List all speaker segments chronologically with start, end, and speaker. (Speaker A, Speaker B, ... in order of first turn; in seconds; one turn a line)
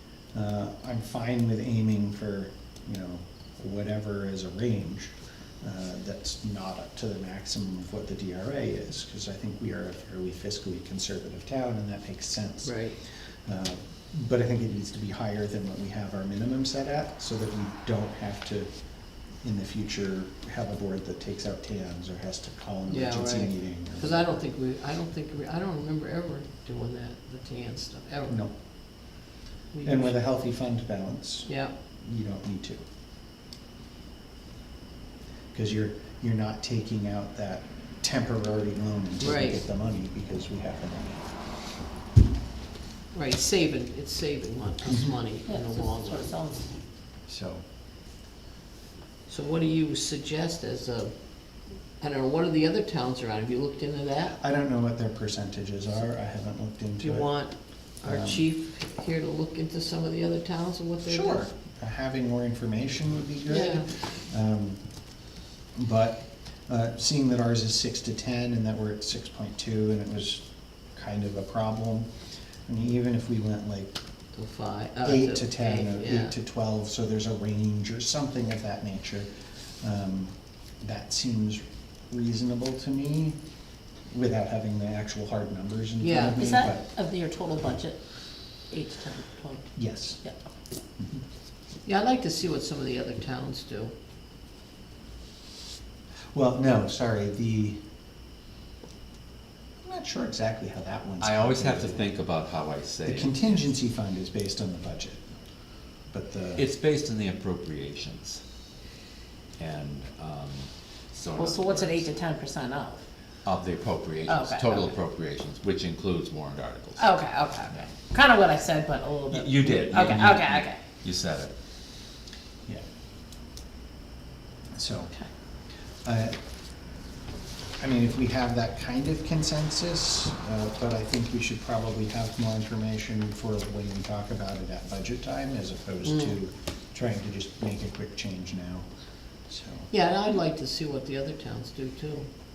Speaker A: 0.3-12.8
Speaker B: 12.6-13.0
Speaker A: 13.4-18.7
Speaker A: 19.4-24.3
Speaker B: 22.9-28.4
Speaker B: 29.7-30.1
Speaker A: 29.8-32.8
Speaker B: 31.4-31.7
Speaker A: 35.5-41.4
Speaker B: 39.2-39.6
Speaker B: 43.1-46.4
Speaker C: 45.5-46.7
Speaker A: 47.3-47.6
Speaker B: 49.3-51.1
Speaker B: 52.0-54.4
Speaker A: 54.3-57.3
Speaker B: 57.0-61.5
Speaker A: 58.0-58.4
Speaker A: 61.0-64.8
Speaker B: 63.5-63.9
Speaker A: 65.7-72.1
Speaker A: 72.6-73.9
Speaker B: 74.3-76.3
Speaker A: 75.0-83.4
Speaker A: 84.1-86.8
Speaker B: 86.0-86.4
Speaker C: 86.4-88.0
Speaker C: 88.7-89.7
Speaker A: 89.8-90.2
Speaker B: 91.8-93.9
Speaker A: 96.3-97.8
Speaker A: 99.8-102.1
Speaker D: 101.2-103.8
Speaker A: 103.0-105.3
Speaker A: 106.1-106.6
Speaker D: 106.5-108.4
Speaker D: 109.6-112.1
Speaker C: 111.4-113.0
Speaker D: 113.4-117.1
Speaker C: 114.3-114.8
Speaker C: 117.0-120.8
Speaker D: 119.3-121.5
Speaker A: 124.7-125.1
Speaker A: 126.0-126.4
Speaker A: 127.8-138.9
Speaker B: 136.1-136.3
Speaker A: 139.5-139.9
Speaker B: 139.9-142.2